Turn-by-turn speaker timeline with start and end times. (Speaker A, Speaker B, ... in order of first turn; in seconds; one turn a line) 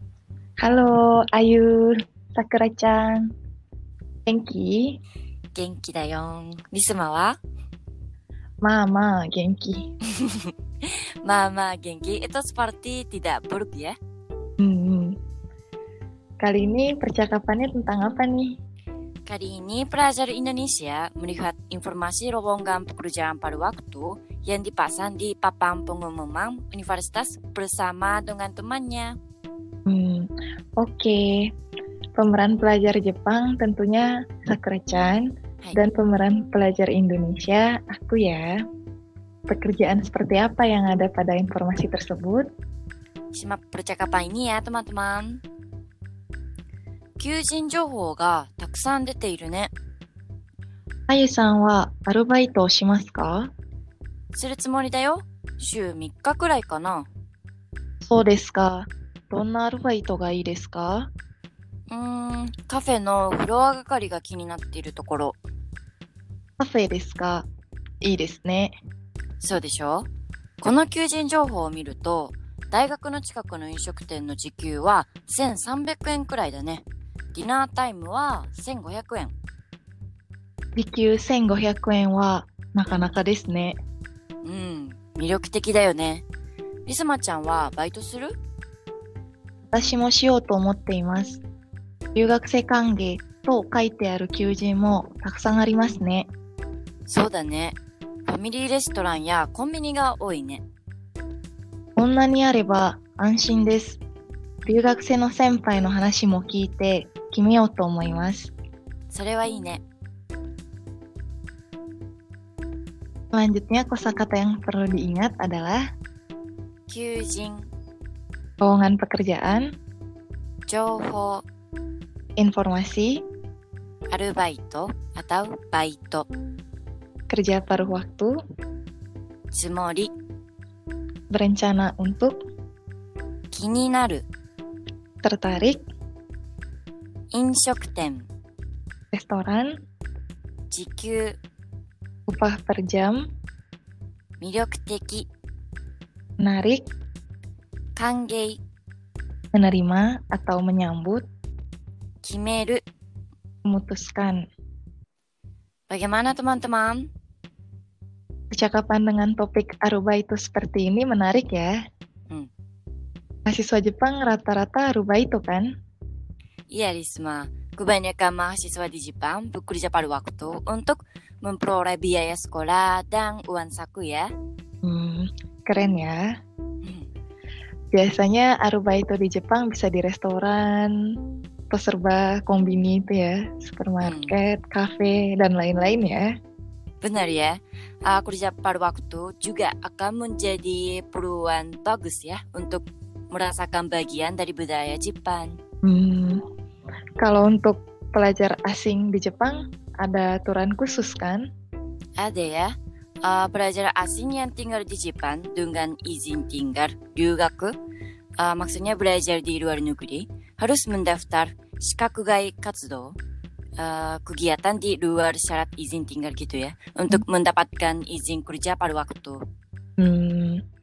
Speaker A: 0.6-3.3
Speaker A: 4.2-5.0
Speaker B: 5.5-7.4
Speaker A: 8.6-9.9
Speaker B: 10.1-13.9
Speaker A: 14.6-15.2
Speaker A: 16.4-18.6
Speaker B: 19.2-29.2
Speaker A: 29.9-31.5
Speaker A: 32.2-38.6
Speaker A: 39.5-42.5
Speaker B: 43.3-45.4
Speaker B: 47.2-49.7
Speaker A: 51.1-53.5
Speaker B: 54.3-57.1
Speaker A: 58.0-61.1
Speaker B: 61.9-65.4
Speaker A: 66.6-67.5
Speaker A: 68.0-68.8
Speaker B: 69.4-70.1
Speaker B: 70.6-79.3
Speaker A: 80.8-83.8
Speaker B: 84.4-86.2
Speaker B: 86.8-88.3
Speaker A: 89.7-91.4
Speaker A: 92.1-96.3
Speaker B: 97.1-97.8
Speaker B: 98.3-100.6
Speaker A: 102.0-104.0
Speaker A: 104.7-108.5
Speaker B: 109.1-109.8
Speaker A: 113.3-115.8
Speaker B: 116.9-117.7
Speaker A: 118.6-119.7
Speaker B: 120.7-121.4
Speaker A: 122.4-123.2
Speaker B: 124.1-126.3
Speaker A: 127.3-128.3
Speaker B: 129.5-130.1
Speaker A: 131.3-132.4
Speaker B: 133.5-134.2
Speaker A: 135.2-135.8
Speaker B: 137.3-138.3
Speaker A: 139.1-139.7
Speaker B: 140.7-141.3
Speaker A: 142.3-143.2
Speaker B: 144.4-145.3
Speaker A: 146.4-146.8
Speaker B: 148.0-148.6
Speaker A: 149.5-151.2
Speaker B: 152.2-152.8
Speaker A: 153.6-154.4
Speaker B: 155.9-157.1
Speaker A: 158.5-161.7
Speaker A: 163.4-165.7
Speaker B: 166.7-174.3
Speaker A: 174.8-176.3
Speaker B: 176.8-177.1
Speaker A: 177.9-180.9
Speaker A: 181.7-186.3
Speaker B: 184.0-184.3
Speaker B: 187.0-195.6
Speaker A: 195.8-196.4
Speaker A: 197.2-201.4
Speaker B: 202.2-202.7
Speaker B: 203.2-207.7
Speaker B: 208.4-213.2
Speaker B: 213.8-219.4
Speaker A: 220.0-220.6